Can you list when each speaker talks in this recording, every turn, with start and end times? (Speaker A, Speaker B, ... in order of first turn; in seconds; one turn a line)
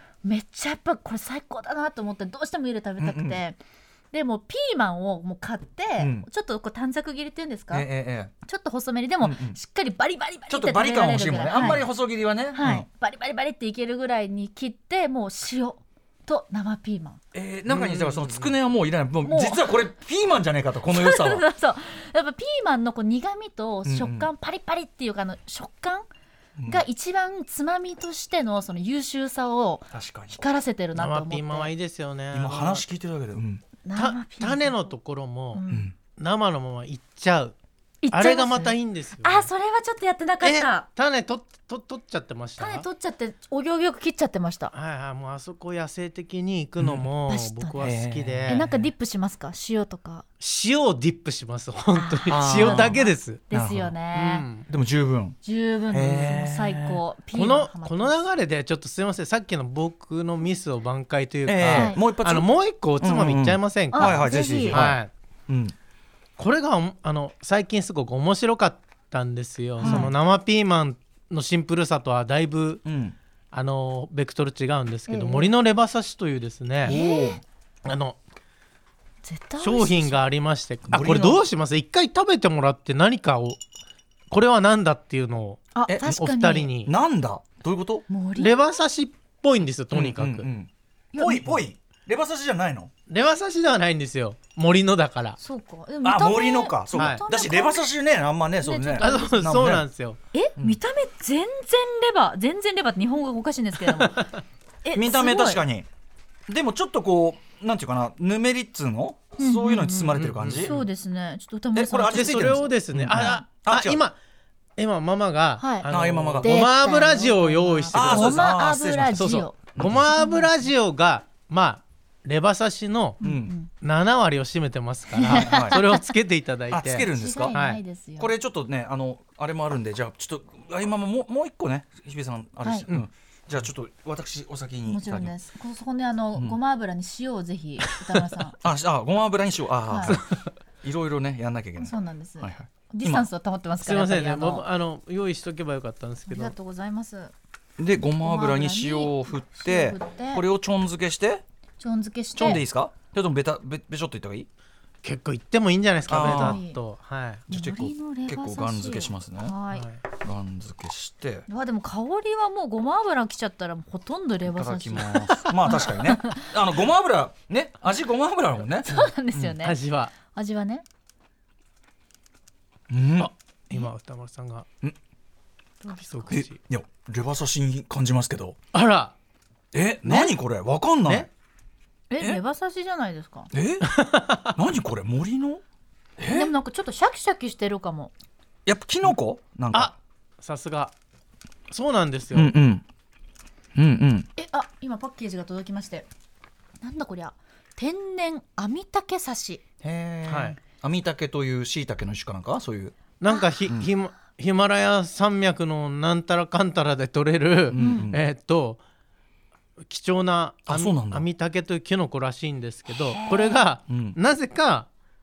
Speaker A: 0.2-3.6
Speaker B: 3.0-3.4
Speaker A: 4.1-7.9
Speaker B: 6.0-6.3
Speaker B: 7.7-8.3
Speaker A: 8.4-11.8
Speaker B: 9.2-9.6
Speaker B: 10.5-12.8
Speaker A: 12.5-17.2
Speaker B: 17.3-21.4
Speaker C: 17.7-18.5
Speaker A: 19.2-19.8
Speaker A: 20.9-26.1
Speaker B: 23.8-24.3
Speaker B: 26.6-26.8
Speaker A: 26.7-31.7
Speaker B: 29.9-30.4
Speaker C: 30.9-32.8
Speaker B: 32.3-33.6
Speaker A: 33.8-34.9
Speaker C: 34.0-37.5
Speaker A: 35.5-35.9
Speaker B: 35.7-35.9
Speaker A: 38.0-40.9
Speaker C: 38.1-39.5
Speaker C: 40.4-42.9
Speaker A: 42.6-44.7
Speaker C: 44.7-48.6
Speaker B: 46.8-47.1
Speaker A: 47.3-47.9
Speaker B: 47.8-48.6
Speaker A: 48.5-50.2
Speaker C: 50.4-53.4
Speaker A: 51.9-54.5
Speaker B: 52.3-53.0
Speaker B: 53.5-53.9
Speaker C: 54.1-54.7
Speaker B: 54.7-55.4
Speaker A: 55.4-58.2
Speaker B: 55.9-57.0
Speaker C: 57.3-65.1
Speaker B: 61.5-65.7
Speaker A: 61.6-62.0
Speaker A: 63.9-64.8
Speaker C: 66.4-72.8
Speaker A: 69.8-70.1
Speaker B: 69.8-70.1
Speaker B: 72.8-73.1
Speaker C: 73.5-76.9
Speaker A: 75.1-75.5
Speaker A: 76.8-77.4
Speaker B: 76.8-77.4
Speaker C: 77.8-78.2
Speaker A: 79.2-80.2
Speaker C: 79.6-83.6
Speaker B: 80.9-81.4
Speaker C: 84.3-86.9
Speaker A: 85.7-86.7
Speaker B: 85.9-86.2
Speaker B: 86.8-88.0
Speaker A: 88.1-88.7
Speaker C: 88.4-90.5
Speaker B: 89.9-92.9
Speaker A: 91.1-91.6
Speaker C: 93.1-95.4
Speaker A: 95.4-97.8
Speaker B: 96.0-99.8
Speaker C: 96.9-97.2
Speaker A: 98.6-99.4
Speaker C: 99.0-100.2
Speaker A: 100.3-104.3
Speaker C: 104.0-104.3
Speaker A: 104.8-105.6
Speaker B: 104.9-105.9
Speaker B: 106.5-110.7
Speaker A: 109.4-113.4
Speaker C: 110.2-110.9
Speaker B: 111.7-114.0
Speaker C: 112.1-114.2
Speaker C: 114.8-118.5
Speaker A: 115.6-115.9
Speaker B: 115.9-116.6
Speaker A: 116.4-120.7
Speaker B: 117.9-120.1
Speaker C: 119.1-123.2
Speaker A: 123.2-123.7
Speaker B: 123.2-123.5
Speaker C: 123.7-127.8
Speaker A: 125.1-126.0
Speaker B: 125.3-125.8
Speaker B: 126.7-127.5
Speaker A: 127.1-128.3
Speaker B: 128.2-135.3
Speaker A: 134.9-138.6
Speaker B: 138.6-140.2
Speaker A: 139.9-140.2
Speaker C: 140.1-140.3
Speaker B: 140.8-143.3
Speaker A: 141.8-144.7
Speaker C: 143.8-146.5
Speaker A: 146.3-147.3
Speaker B: 147.8-151.4
Speaker A: 148.2-150.4
Speaker A: 151.8-152.6
Speaker B: 152.3-154.5
Speaker C: 155.0-157.4
Speaker B: 156.1-156.6
Speaker A: 156.1-156.8
Speaker B: 157.5-159.5
Speaker A: 157.5-159.9
Speaker C: 159.7-160.0
Speaker B: 160.2-161.5
Speaker A: 161.5-166.4
Speaker B: 164.4-169.5
Speaker A: 168.8-170.8
Speaker C: 169.6-170.1
Speaker B: 172.9-173.3
Speaker C: 173.2-174.7
Speaker A: 175.8-176.3
Speaker C: 175.9-176.6
Speaker B: 176.3-178.6
Speaker C: 178.7-179.1
Speaker B: 179.7-181.3
Speaker C: 180.0-180.3
Speaker A: 182.1-183.5
Speaker B: 183.5-183.9
Speaker C: 183.8-184.5
Speaker B: 184.5-185.6
Speaker B: 186.2-186.5
Speaker A: 186.3-188.1
Speaker B: 188.7-189.9
Speaker C: 189.7-190.9
Speaker C: 191.7-192.5
Speaker B: 192.3-192.8
Speaker B: 193.7-194.3
Speaker A: 194.3-196.1
Speaker A: 196.8-199.6
Speaker B: 199.8-202.9
Speaker C: 200.3-200.6
Speaker C: 203.2-208.8
Speaker B: 207.7-208.2
Speaker A: 207.8-208.1
Speaker C: 209.9-214.9
Speaker B: 210.7-211.2
Speaker A: 213.1-213.6
Speaker B: 213.9-214.2